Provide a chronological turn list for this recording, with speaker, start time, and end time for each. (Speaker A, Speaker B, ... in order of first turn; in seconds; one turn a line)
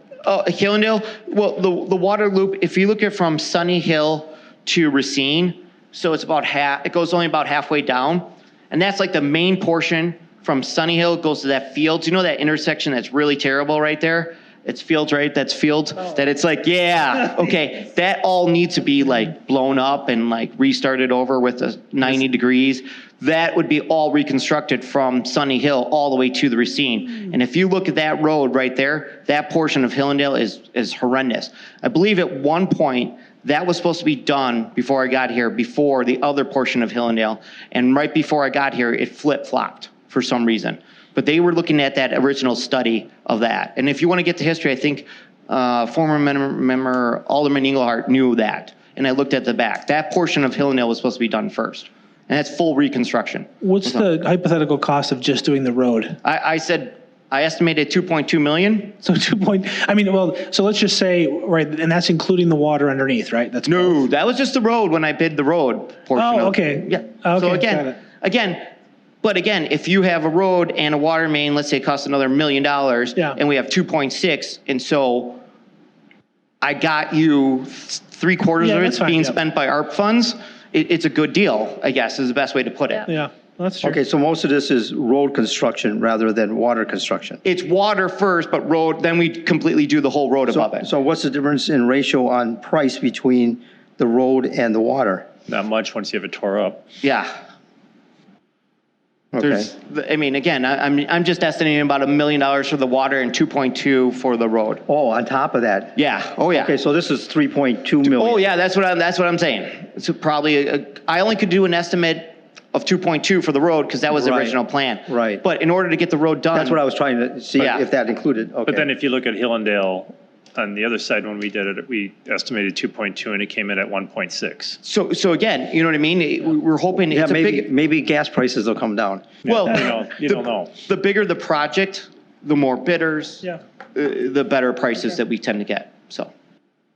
Speaker A: 0.2-54.0
Speaker B: 53.6-56.2
Speaker A: 56.2-59.0
Speaker B: 59.0-64.1
Speaker A: 63.6-68.7
Speaker B: 66.1-68.0
Speaker A: 69.2-75.4
Speaker B: 73.2-73.4
Speaker A: 76.6-83.1
Speaker B: 78.6-79.4
Speaker B: 83.0-84.0
Speaker C: 83.8-87.4
Speaker A: 87.4-90.9
Speaker C: 90.5-95.3
Speaker D: 95.5-96.8
Speaker A: 97.0-97.3
Speaker C: 99.3-99.7
Speaker A: 99.4-104.8
Speaker C: 104.9-106.0
Speaker A: 106.0-106.7
Speaker C: 106.5-108.4
Speaker A: 108.0-116.8
Speaker C: 114.1-115.4
Speaker C: 116.5-118.9
Speaker A: 117.6-117.9
Speaker D: 118.7-124.8
Speaker A: 124.8-127.7
Speaker C: 127.1-129.2
Speaker D: 129.4-130.7
Speaker A: 129.4-136.3